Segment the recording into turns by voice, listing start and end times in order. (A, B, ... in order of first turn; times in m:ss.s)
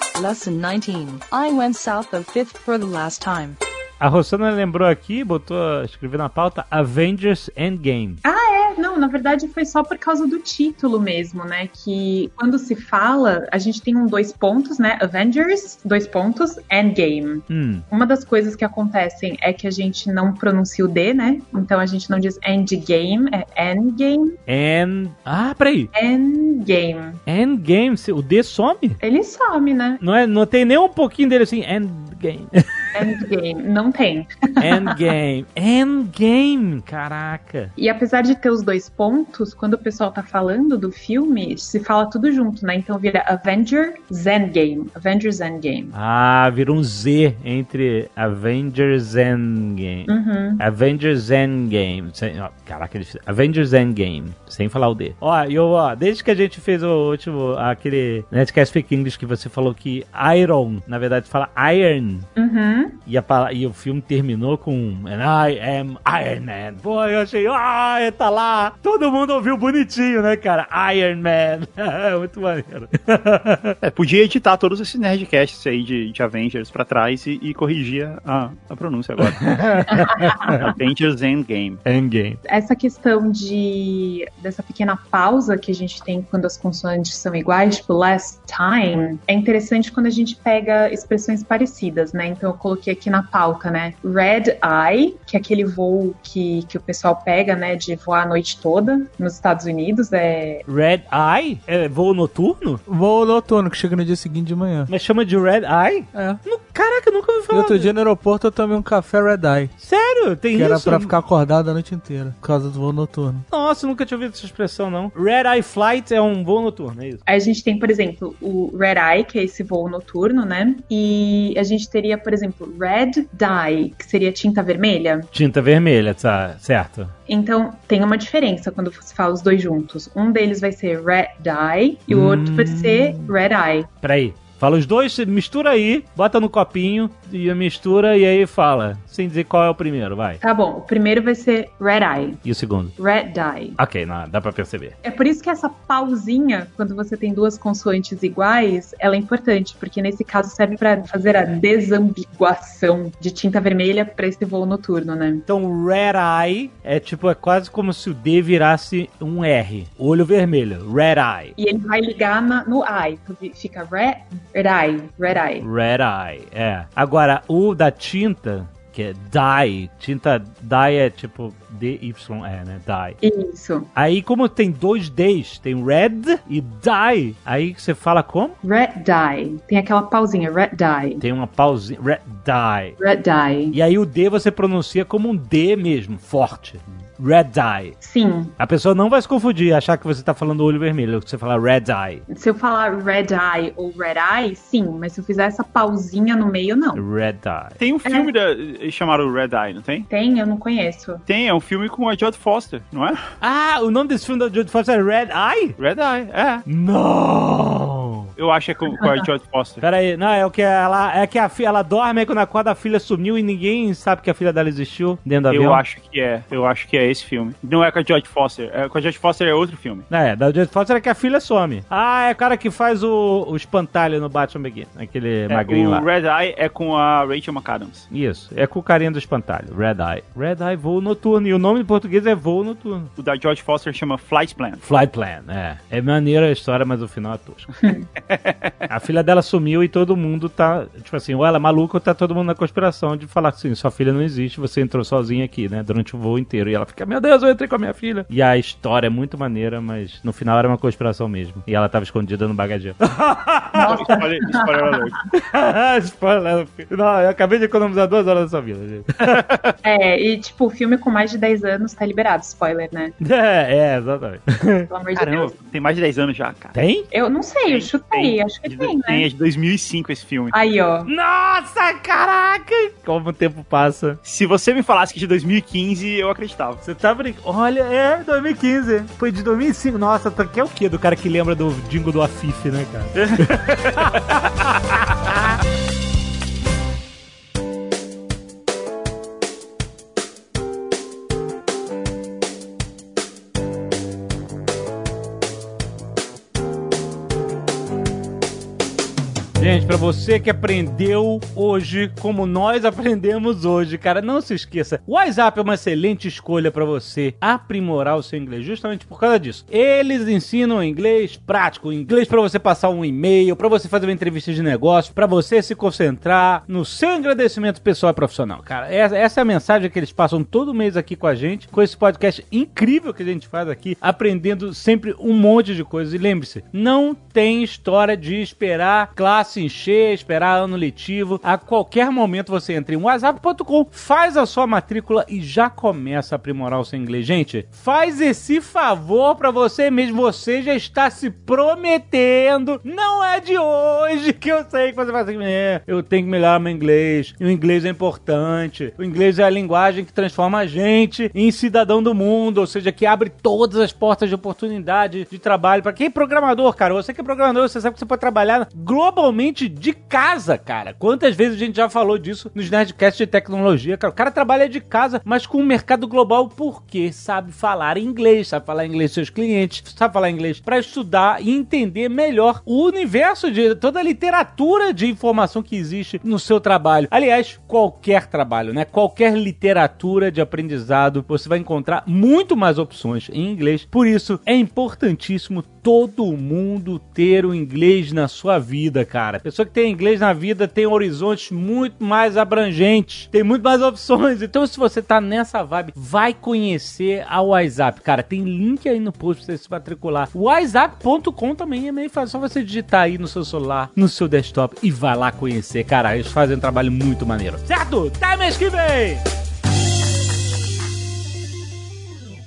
0:00.2-0:03.6 A
0:04.0-0:08.2 B
0:08.2-0:24.4 C
0:17.5-0:17.8 B
0:24.5-0:25.9 B
0:25.9-0:27.2 C
0:27.3-0:29.0 B
0:29.0-0:30.0 C
0:30.0-0:33.1 B
0:32.9-0:35.0 C
0:34.6-0:37.7 B
0:37.8-0:45.9 C
0:45.9-1:02.3 B
0:50.1-0:50.6 C
1:02.4-1:03.0 C
1:03.0-1:13.8 B
1:13.8-1:19.4 D
1:19.2-1:20.7 B
1:19.9-1:20.5 C
1:20.4-1:21.8 D
1:21.8-1:22.4 B
1:22.5-1:40.6 C
1:40.6-1:42.8 B
1:42.9-1:44.9 E
1:44.9-1:47.9 B
1:46.1-1:46.4 E
1:47.5-1:49.7 E
1:49.8-1:51.2 B
1:50.5-1:53.4 E
1:53.5-1:57.2 B
1:57.2-2:05.3 C
2:05.3-2:07.1 B
2:07.3-2:13.9 C
2:12.1-2:13.3 B
2:14.0-2:20.4 B
2:20.4-2:22.4 C
2:22.4-2:23.0 B
2:23.0-2:23.8 C
2:23.8-2:25.0 B
2:25.0-2:35.4 C
2:35.5-2:41.5 B
2:41.6-2:45.6 C
2:45.6-2:53.2 B
2:53.2-2:53.9 C
2:53.9-2:58.6 B
2:58.6-3:01.2 C
3:01.2-3:03.0 B
3:03.0-3:03.8 C
3:03.7-3:08.0 B
3:08.0-3:08.5 C
3:08.6-3:12.2 B
3:12.3-3:17.0 C
3:16.9-3:17.8 B
3:17.8-3:20.1 D
3:18.0-3:18.3 C
3:20.1-3:21.2 C
3:21.3-3:23.2 D
3:23.4-3:25.8 B
3:25.8-3:26.6 D
3:26.6-3:28.3 B
3:28.4-3:29.8 D
3:29.8-3:35.8 B
3:35.5-3:40.1 D
3:40.1-3:46.0 B
3:45.5-3:48.1 D
3:48.1-3:53.1 B
3:53.2-3:54.8 D
3:54.8-3:57.7 B
3:57.8-3:58.1 C
3:58.2-3:58.7 D
3:58.9-4:13.9 B
4:13.7-4:14.9 C
4:13.8-4:15.2 D
4:15.3-4:19.4 B
4:19.2-4:19.7 D
4:19.8-4:23.1 C
4:23.2-4:24.9 B
4:24.9-4:25.5 C
4:25.2-4:26.8 D
4:26.7-4:27.1 B
4:27.1-4:29.3 C
4:27.6-4:30.5 D
4:30.5-4:31.1 C
4:31.0-4:34.2 B
4:34.2-4:36.8 D
4:36.8-4:45.6 B
4:43.2-4:44.1 D
4:59.6-6:49.2 B